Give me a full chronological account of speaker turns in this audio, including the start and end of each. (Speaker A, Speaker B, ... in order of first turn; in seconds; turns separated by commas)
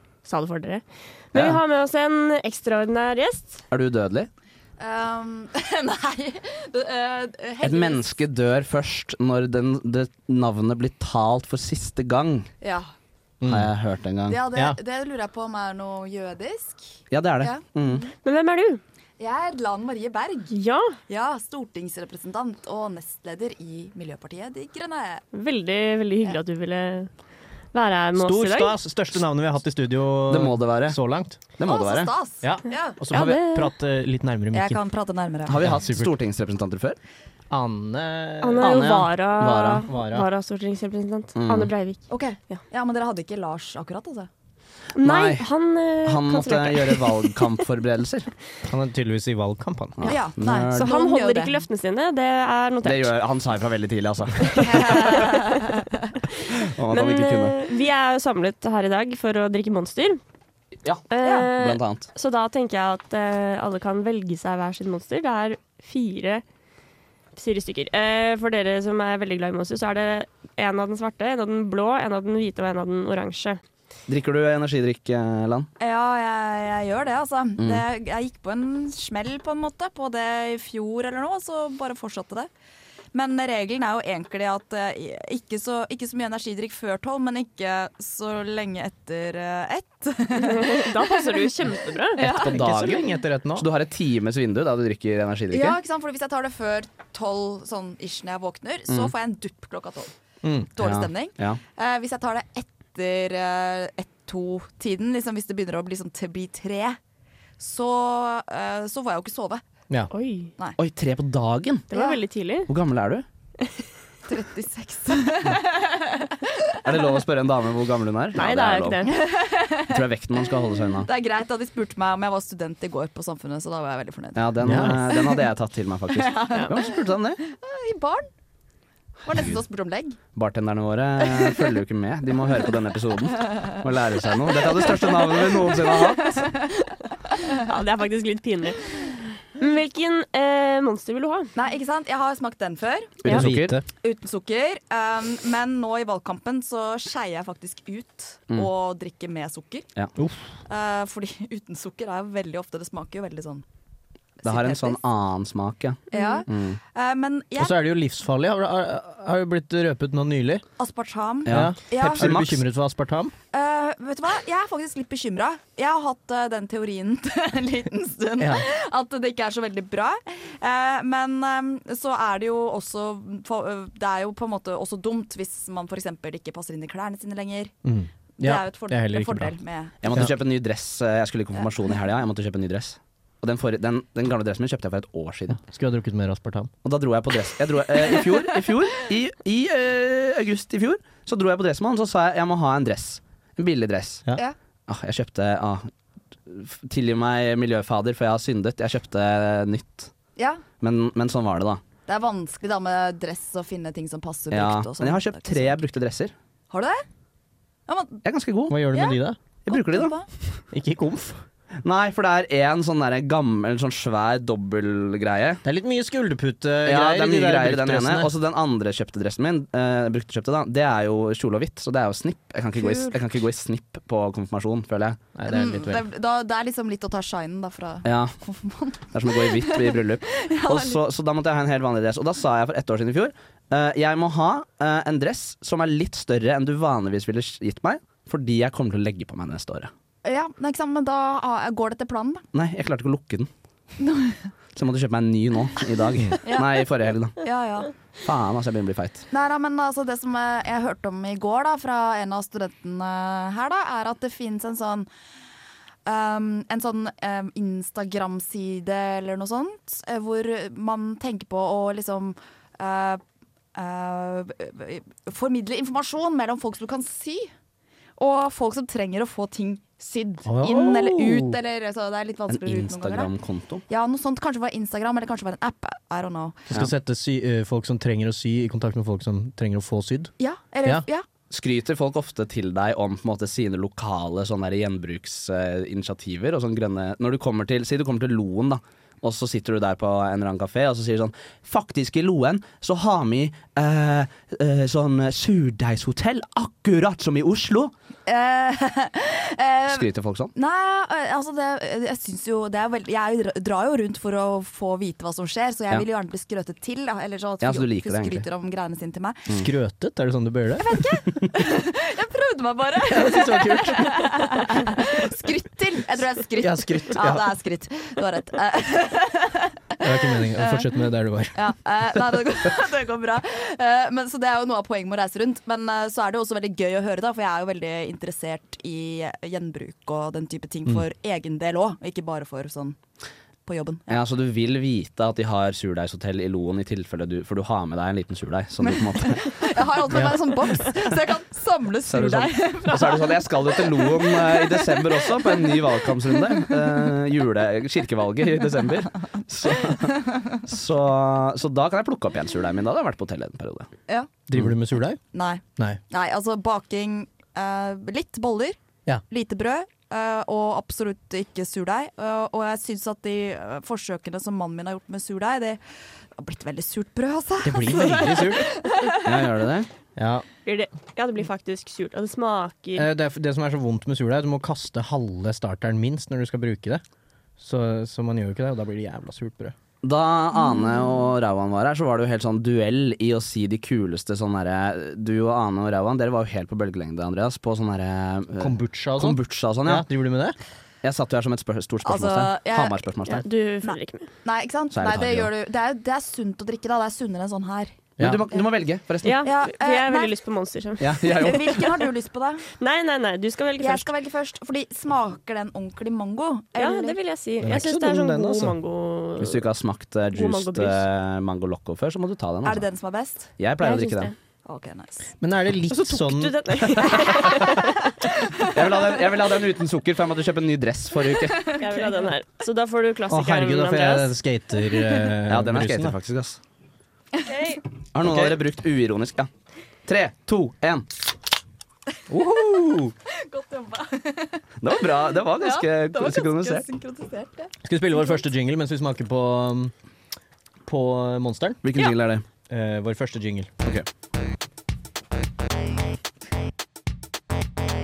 Speaker A: 0.2-3.6, Speaker B: 1.3-1.6, Speaker B: 3.7-4.3, Speaker C: 4.8-8.1, Speaker B: 7.6-12.5, Speaker C: 12.6-12.9, Speaker D: 13.4-13.7, Speaker B: 13.4-14.4, Speaker C: 14.3-18.0, Speaker B: 17.1-18.1, Speaker A: 18.2-18.8, Speaker C: 19.2-20.5, Speaker A: 20.5-21.0, Speaker C: 21.1-25.2, Speaker A: 25.3-27.1, Speaker A: 27.7-28.7, Speaker D: 28.2-31.4, Speaker B: 30.3-31.0, Speaker B: 31.6-32.1, Speaker C: 31.6-33.0, Speaker D: 32.4-34.8, Speaker B: 33.1-33.4, Speaker A: 33.1-33.7, Speaker C: 34.5-35.6, Speaker B: 35.5-37.0, Speaker D: 35.6-36.1, Speaker D: 37.5-38.7, Speaker A: 38.4-42.6, Speaker B: 38.6-39.9, Speaker D: 39.9-40.3, Speaker B: 41.4-41.7, Speaker C: 42.1-44.3, Speaker A: 45.0-47.4, Speaker B: 45.0-45.5, Speaker B: 46.0-48.3, Speaker D: 48.6-50.1, Speaker B: 50.0-50.9, Speaker C: 50.0-51.6, Speaker A: 50.7-53.1, Speaker B: 52.8-55.2, Speaker A: 54.6-55.4, Speaker C: 54.6-56.0, Speaker B: 56.5-57.6, Speaker A: 56.9-60.2, Speaker B: 60.8-62.1, Speaker A: 61.1-66.4, Speaker C: 61.2-61.5, Speaker A: 67.3-73.6, Speaker B: 74.1-75.7, Speaker C: 75.8-82.5, Speaker B: 77.6-77.8, Speaker C: 83.1-91.4, Speaker A: 90.3-92.3, Speaker C: 92.2-92.5, Speaker B: 92.2-95.8, Speaker D: 92.3-93.7, Speaker C: 95.5-100.1, Speaker D: 100.4-100.7, Speaker C: 100.8-107.0, Speaker B: 100.8-101.6, Speaker C: 107.6-109.6, Speaker A: 110.1-110.5, Speaker B: 110.8-111.9, Speaker A: 111.9-112.7, Speaker C: 111.9-112.2, Speaker B: 112.7-113.2, Speaker C: 114.3-117.1, Speaker B: 116.8-119.1, Speaker A: 118.3-119.1, Speaker C: 119.0-120.0, Speaker B: 119.9-121.1, Speaker C: 120.9-125.5, Speaker B: 124.3-127.4, Speaker D: 124.6-125.0, Speaker C: 126.1-128.3, Speaker C: 129.2-130.2, Speaker B: 130.3-136.5, Speaker C: 131.2-131.7, Speaker C: 133.4-133.7, Speaker C: 134.5-137.6, Speaker A: 137.6-141.5, Speaker C: 141.6-143.3, Speaker B: 143.2-143.8, Speaker D: 143.3-143.8, Speaker C: 144.0-149.9, Speaker D: 150.2-150.4, Speaker C: 150.7-153.6, Speaker C: 154.4-155.0, Speaker B: 154.4-156.8, Speaker C: 156.1-157.7, Speaker A: 156.1-156.4, Speaker D: 157.6-160.6, Speaker C: 160.8-162.3, Speaker B: 161.5-162.6, Speaker D: 161.5-163.3, Speaker C: 163.5-177.7, Speaker D: 168.4-168.7, Speaker D: 177.8-179.5, Speaker C: 178.4-180.0, Speaker B: 180.0-185.6, Speaker D: 185.6-186.7, Speaker B: 186.8-194.2, Speaker B: 194.9-195.9, Speaker B: 196.4-200.1, Speaker C: 200.3-200.6, Speaker B: 200.8-201.8, Speaker C: 202.1-205.8, Speaker B: 204.5-206.3, Speaker C: 206.7-207.0, Speaker C: 207.9-208.2, Speaker B: 208.2-208.8, Speaker D: 208.7-209.4, Speaker C: 208.9-210.2, Speaker B: 209.7-210.2, Speaker D: 210.7-211.4, Speaker B: 211.8-215.6, Speaker D: 215.6-218.3, Speaker B: 216.8-225.2, Speaker C: 222.8-223.2, Speaker D: 225.3-226.0, Speaker C: 225.4-231.0, Speaker B: 228.0-228.3, Speaker B: 229.1-239.9, Speaker C: 240.2-242.4, Speaker B: 242.5-243.5, Speaker C: 244.0-244.5, Speaker B: 244.7-247.4, Speaker C: 246.4-246.8, Speaker C: 247.4-247.9, Speaker B: 248.2-249.3, Speaker C: 249.3-255.1, Speaker C: 256.1-263.2, Speaker C: 263.7-267.5, Speaker C: 268.2-273.3, Speaker D: 270.4-271.6, Speaker B: 272.5-273.8, Speaker C: 273.9-276.7, Speaker D: 276.7-280.3, Speaker C: 280.4-281.2, Speaker B: 281.5-297.9, Speaker C: 298.2-309.5, Speaker B: 299.9-300.5, Speaker B: 307.6-308.4, Speaker D: 309.6-311.0, Speaker C: 310.8-320.9, Speaker D: 313.1-315.0, Speaker D: 316.6-317.5, Speaker D: 320.0-322.2, Speaker C: 321.5-333.0, Speaker C: 333.6-334.2, Speaker B: 334.1-339.7, Speaker C: 338.8-347.1, Speaker B: 342.1-353.9, Speaker C: 349.7-350.6, Speaker D: 354.5-355.2, Speaker C: 355.3-358.8, Speaker C: 359.3-365.8, Speaker C: 366.4-369.5, Speaker D: 367.6-368.7, Speaker B: 369.2-369.9, Speaker D: 370.1-370.4, Speaker A: 370.6-373.1, Speaker D: 372.9-377.0, Speaker D: 377.6-379.7, Speaker B: 380.0-390.1, Speaker D: 388.6-390.6, Speaker B: 391.0-393.4, Speaker C: 392.0-393.0, Speaker A: 393.2-394.3, Speaker C: 393.8-398.7, Speaker B: 394.9-395.5, Speaker D: 398.2-398.4, Speaker B: 398.2-399.5, Speaker A: 399.2-401.6, Speaker C: 399.4-400.3, Speaker B: 401.1-401.9, Speaker C: 401.2-402.6, Speaker A: 402.8-404.1, Speaker C: 403.8-407.2, Speaker A: 406.8-409.6, Speaker D: 407.6-408.8, Speaker B: 409.4-412.8, Speaker A: 410.3-411.0, Speaker C: 412.6-413.5, Speaker B: 413.6-414.3, Speaker A: 413.8-414.3, Speaker C: 414.6-415.3, Speaker D: 415.4-416.5, Speaker B: 415.9-417.7, Speaker A: 416.3-417.9, Speaker C: 417.1-419.0, Speaker B: 418.7-421.8, Speaker C: 421.5-422.3, Speaker A: 421.8-424.3, Speaker D: 423.3-426.1, Speaker B: 425.5-426.6, Speaker C: 427.3-427.8, Speaker B: 428.1-429.5, Speaker D: 428.2-428.6, Speaker B: 430.0-431.1, Speaker D: 432.3-433.1, Speaker C: 433.3-438.4, Speaker B: 434.8-436.9, Speaker D: 437.8-439.9, Speaker D: 440.9-441.8, Speaker B: 441.8-442.4, Speaker D: 442.7-443.7